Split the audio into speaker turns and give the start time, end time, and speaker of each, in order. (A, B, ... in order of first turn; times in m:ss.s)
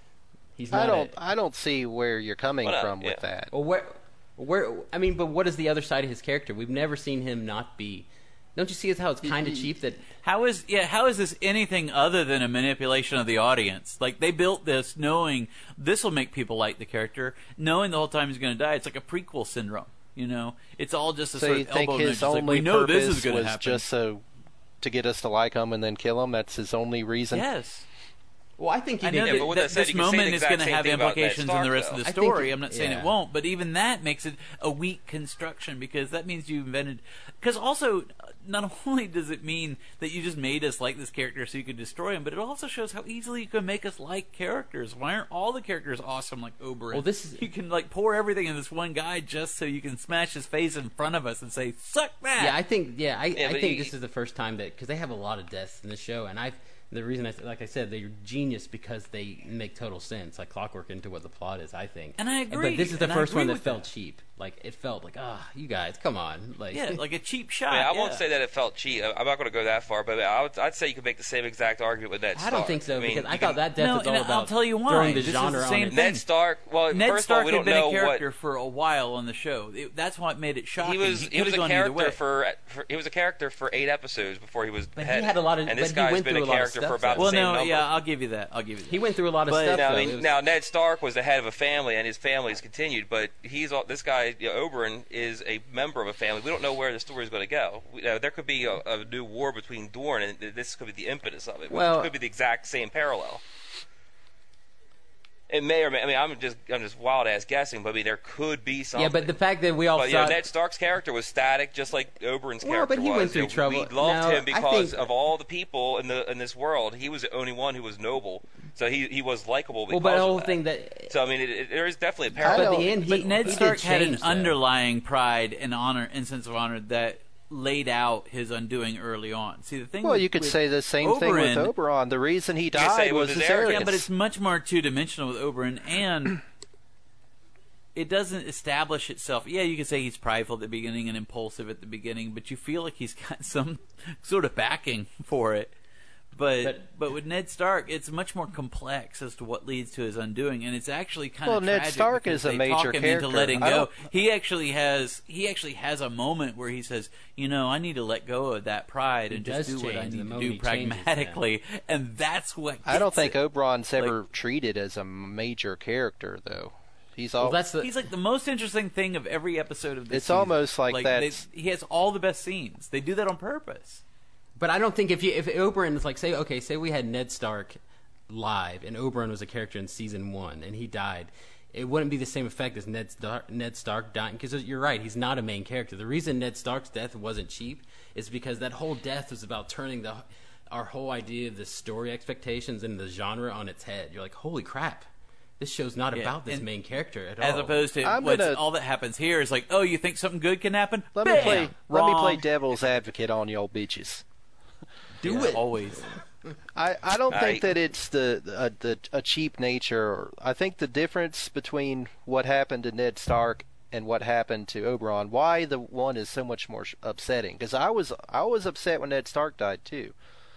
0:00.6-0:01.1 A
0:00.7-0:03.5 B
0:02.6-0:03.2 C
0:03.5-0:10.0 A
0:09.3-0:09.7 B
0:10.2-0:23.8 D
0:21.4-0:24.2 B
0:24.8-0:27.5 B
0:27.3-0:27.9 D
0:28.6-0:29.5 A
0:29.0-0:52.6 D
0:29.2-0:32.0 C
0:32.0-0:33.1 A
0:46.9-0:47.5 A
0:52.4-1:07.0 A
0:53.4-0:53.9 C
1:02.2-1:03.8 D
1:06.7-1:08.2 D
1:07.7-1:13.6 C
1:12.4-1:16.1 A
1:13.8-1:16.2 D
1:15.9-1:18.2 C
1:16.9-1:22.2 D
1:20.8-1:27.9 C
1:25.0-1:27.5 A
1:27.2-1:29.8 D
1:28.9-1:30.3 A
1:29.7-1:43.4 C
1:41.7-1:42.1 A
1:45.5-1:49.3 C
1:49.0-1:50.4 A
1:50.0-2:03.3 C
1:52.6-1:55.1 A
1:59.9-2:01.2 A
2:02.4-2:04.6 A
2:02.4-2:02.9 B
2:03.0-2:11.7 D
2:10.0-2:14.0 B
2:12.7-2:14.0 C
2:13.6-2:16.4 D
2:18.0-2:25.7 D
2:26.3-2:43.4 D
2:26.6-2:26.9 A
2:31.4-2:33.9 B
2:39.3-2:41.4 A
2:42.9-2:47.6 B
2:47.4-2:48.0 A
2:47.8-2:54.0 D
2:50.1-2:51.4 B
2:54.6-3:17.8 A
3:16.1-3:16.7 D
3:17.4-3:22.4 D
3:18.0-3:18.6 B
3:21.2-3:24.2 B
3:21.4-3:21.7 A
3:25.2-3:26.1 D
3:25.2-3:26.2 A
3:26.8-3:40.2 B
3:27.3-3:27.8 C